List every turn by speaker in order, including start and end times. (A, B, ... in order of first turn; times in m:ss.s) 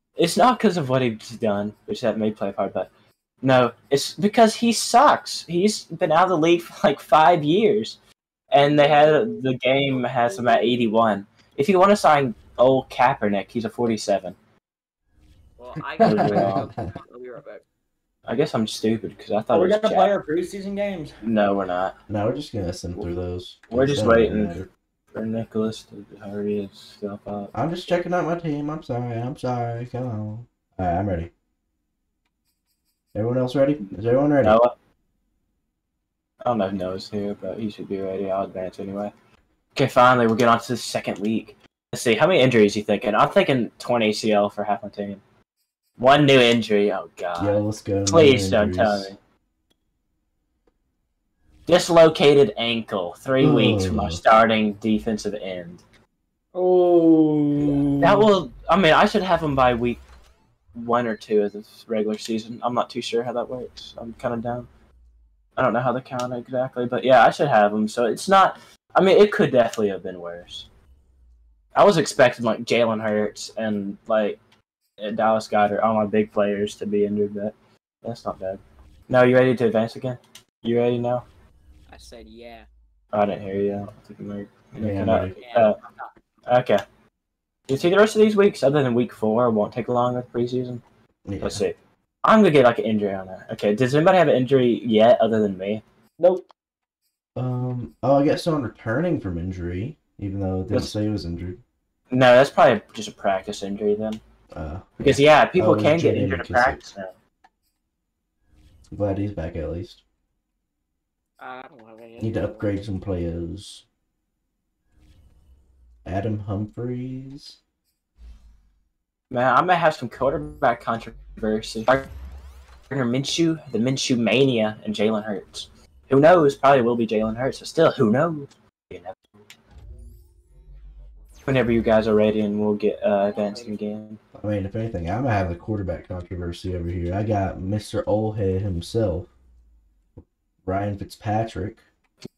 0:00.2-0:02.9 A
0:03.4-0:08.0 A
0:08.5-0:14.4 A
0:15.6-0:17.6 B
0:16.0-0:16.9 C
0:16.0-0:16.7 A
0:18.2-0:20.1 A
0:19.5-0:21.1 D
0:21.2-0:22.0 A
0:22.1-0:24.7 C
0:23.7-0:24.6 A
0:25.1-0:27.5 A
0:27.5-0:31.3 C
0:33.1-0:34.6 C
0:34.4-0:34.7 A
0:36.4-0:39.1 A
0:39.7-0:45.2 A
0:46.0-0:49.2 A
0:47.4-0:49.1 C
0:51.7-0:55.8 A
0:53.4-0:54.2 C
0:56.5-0:58.3 D
0:57.6-0:57.8 C
0:58.0-1:00.0 A
1:00.7-1:04.7 A
1:05.6-1:10.7 A
1:11.8-1:14.4 A
1:15.0-1:21.2 A
1:21.9-1:22.7 B
1:23.1-1:25.8 A
1:24.8-1:25.4 C
1:25.1-1:26.1 B
1:26.5-1:26.8 A
1:27.7-1:30.8 A
1:31.3-1:31.6 C
1:31.4-1:35.8 A
1:36.2-1:36.5 D
1:37.4-1:41.6 C
1:40.7-1:40.9 A
1:42.1-1:44.2 A
1:44.5-1:46.8 C
1:45.0-1:47.1 A
1:48.9-1:50.0 C
1:51.4-1:52.7 B
1:52.2-1:53.8 C
1:56.0-1:57.6 C
1:59.3-2:02.1 A
2:02.9-2:09.2 A
2:11.4-2:14.2 A
2:14.4-2:19.3 C
2:20.6-2:21.8 C